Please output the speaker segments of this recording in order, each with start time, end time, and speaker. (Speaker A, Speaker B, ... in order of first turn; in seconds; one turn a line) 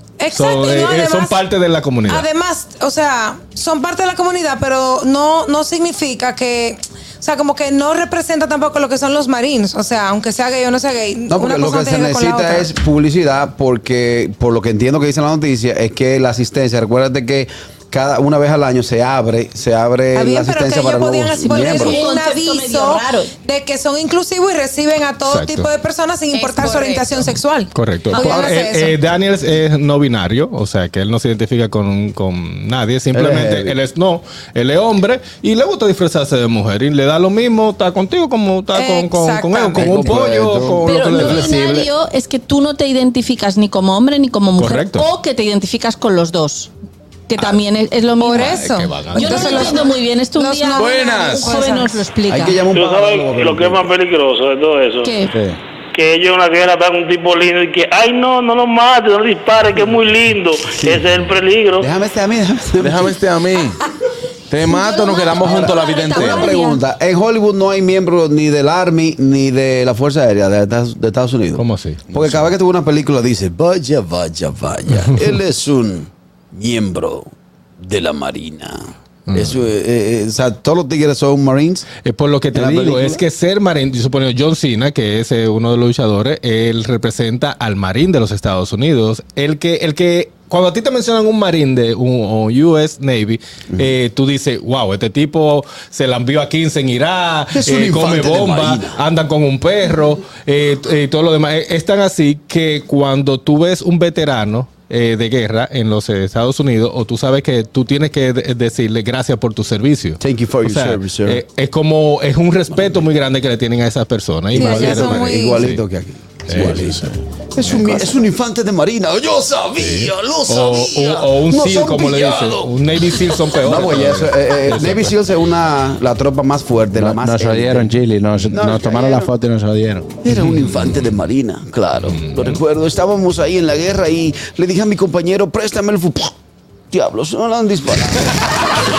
Speaker A: 0.2-1.4
Speaker B: 0.3-2.3
Speaker A: 2.1-12.7
Speaker C: 11.3-22.0
Speaker A: 20.1-29.0
Speaker D: 21.5-23.3
Speaker B: 25.2-25.7
Speaker D: 26.3-27.0
Speaker B: 27.7-41.9
Speaker C: 33.1-33.8
Speaker A: 38.7-40.0
Speaker C: 39.7-41.5
Speaker D: 40.8-46.7
Speaker B: 44.6-45.1
Speaker D: 47.3-52.6
Speaker A: 48.2-52.0
Speaker B: 48.6-49.8
Speaker E: 50.7-51.6
Speaker C: 52.3-53.9
Speaker F: 52.7-55.1
Speaker D: 55.0-55.3
Speaker E: 55.3-55.6
Speaker F: 55.9-61.9
Speaker C: 60.7-61.3
Speaker C: 61.8-63.2
Speaker E: 62.8-63.8
Speaker E: 64.5-66.6
Speaker D: 65.0-66.5
Speaker C: 65.4-81.9
Speaker A: 65.7-66.6
Speaker B: 71.5-72.1
Speaker B: 79.3-79.5
Speaker B: 82.0-115.8
Speaker C: 82.5-83.2
Speaker C: 97.5-99.0
Speaker C: 110.2-111.4
Speaker C: 112.7-113.0
Speaker A: 114.5-115.6
Speaker C: 114.5-129.3
Speaker B: 116.5-116.8
Speaker B: 117.6-118.0
Speaker B: 119.8-125.1
Speaker E: 127.0-130.1
Speaker C: 130.2-136.3
Speaker B: 130.2-131.2
Speaker B: 132.0-132.6
Speaker C: 136.9-138.5